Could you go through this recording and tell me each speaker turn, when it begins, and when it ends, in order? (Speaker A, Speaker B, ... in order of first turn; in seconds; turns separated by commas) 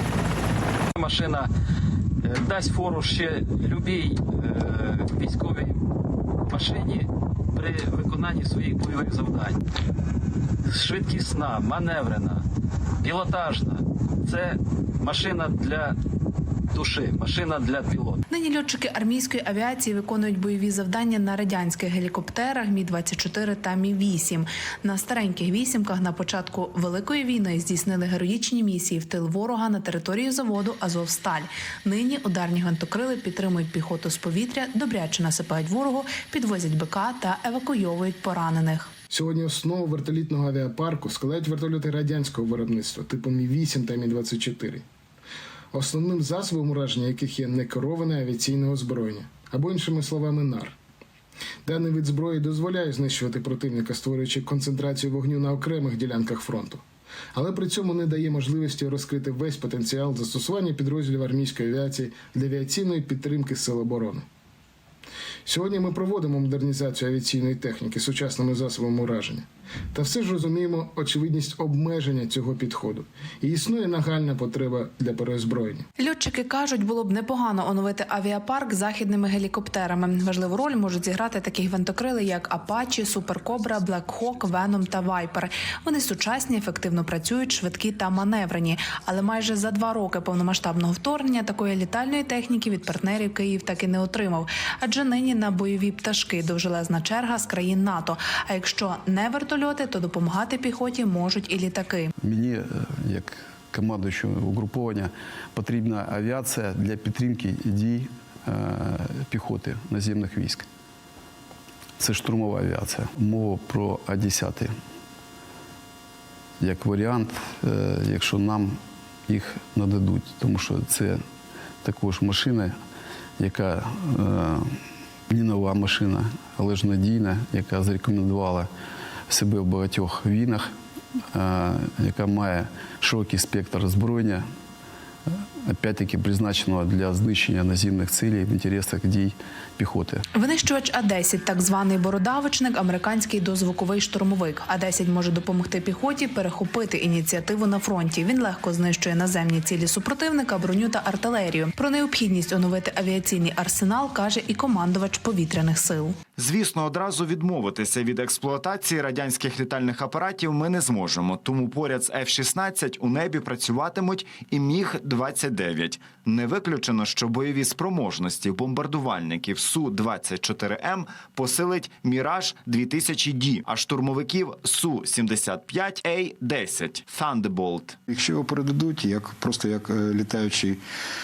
Speaker A: 0.9-1.5, Speaker A: 2.2-5.9, Speaker A: 6.4-9.6, Speaker A: 10.7-12.4, Speaker A: 13.0-15.9, Speaker A: 16.7-18.2, Speaker B: 18.3-38.9, Speaker C: 39.1-44.8, Speaker C: 45.7-50.8, Speaker C: 51.6-56.8, Speaker C: 57.3-64.2, Speaker C: 65.4-75.8, Speaker B: 76.0-102.1, Speaker D: 102.2-110.7, Speaker D: 112.0-114.7, Speaker D: 116.6-121.2, Speaker D: 121.8-122.8, Speaker D: 123.4-124.8, Speaker D: 125.3-128.7, Speaker D: 129.3-130.7, Speaker D: 131.3-134.4, Speaker D: 135.3-140.2, Speaker B: 140.3-156.2, Speaker E: 156.4-177.9, Speaker F: 178.1-180.8